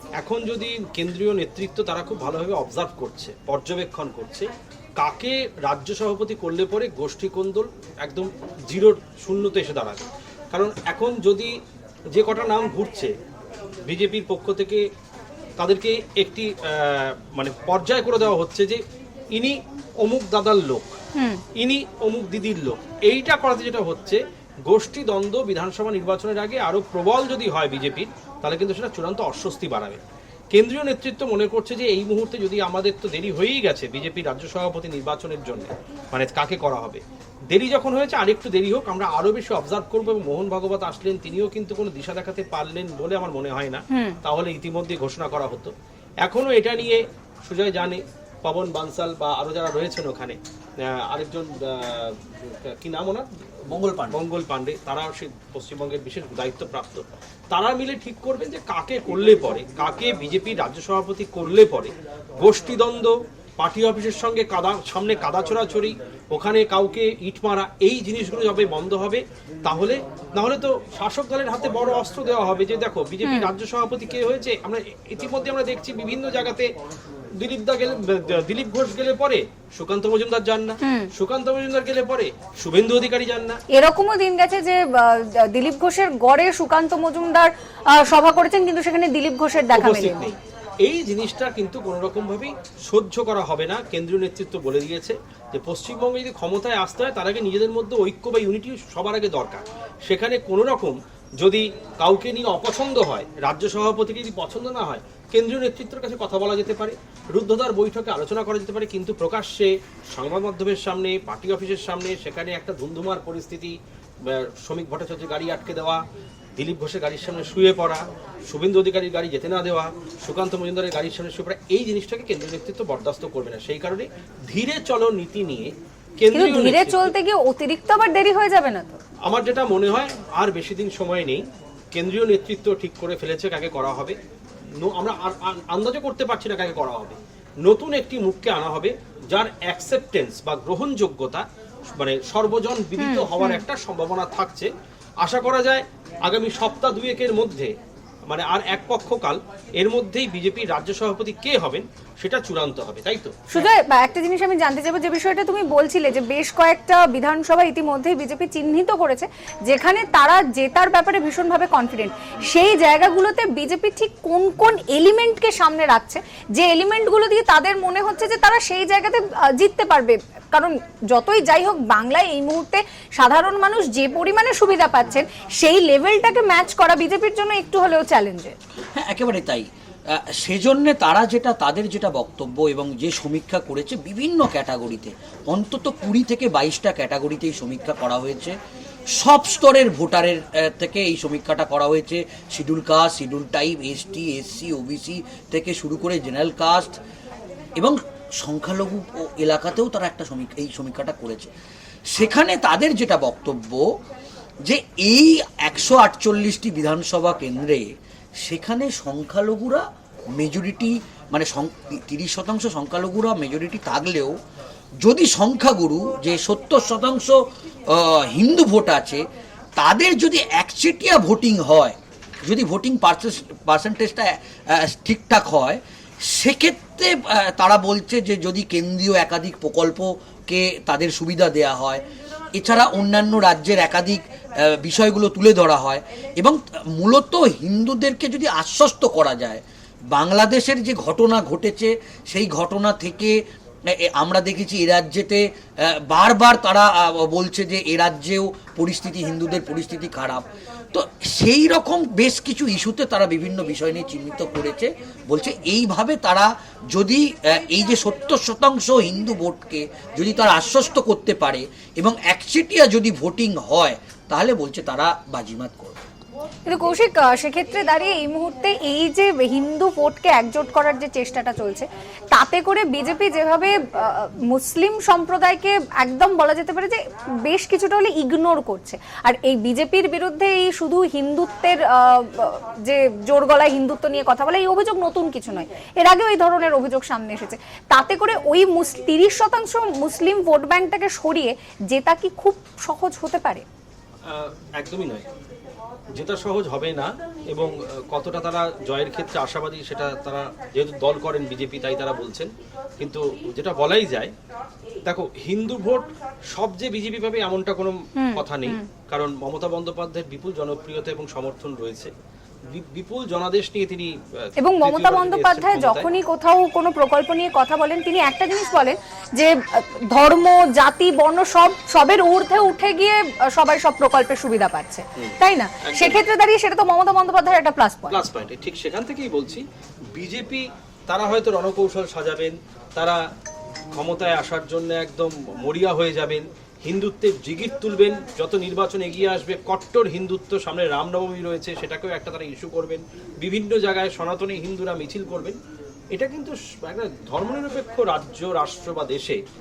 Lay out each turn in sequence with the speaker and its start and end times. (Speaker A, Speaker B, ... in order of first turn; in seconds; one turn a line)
Speaker A: 0.2-11.5
Speaker A: 12.1-13.1
Speaker A: 13.8-14.8
Speaker A: 15.6-18.8
Speaker A: 19.3-20.9
Speaker B: 21.1-21.4
Speaker A: 21.6-45.7
Speaker B: 43.9-44.2
Speaker A: 46.2-53.5
Speaker C: 53.7-54.2
Speaker A: 54.1-76.7
Speaker B: 73.2-73.5
Speaker A: 77.4-83.6
Speaker B: 80.8-81.1
Speaker B: 83.7-90.3
Speaker A: 89.7-116.0
Speaker A: 116.5-127.1
Speaker B: 126.3-129.0
Speaker A: 129.2-134.2
Speaker A: 134.8-144.7
Speaker B: 143.0-143.6
Speaker A: 145.2-147.7
Speaker A: 148.2-153.7
Speaker B: 153.5-178.6
Speaker C: 178.9-188.6
Speaker C: 189.1-196.9
Speaker C: 197.8-201.5
Speaker C: 202.1-203.8
Speaker C: 204.6-207.9
Speaker C: 208.4-214.3
Speaker C: 215.0-217.4
Speaker C: 217.9-219.2
Speaker C: 219.8-232.0
Speaker C: 232.6-239.6
Speaker C: 240.1-266.0
Speaker B: 266.7-293.7
Speaker A: 294.3-295.3
Speaker A: 296.1-304.3
Speaker A: 305.1-312.1
Speaker B: 308.2-308.9
Speaker A: 312.7-316.1
Speaker B: 314.6-328.2
Speaker A: 325.2-326.2
Speaker A: 328.1-329.6
Speaker A: 330.1-333.2
Speaker A: 333.9-345.6
Speaker A: 346.1-349.4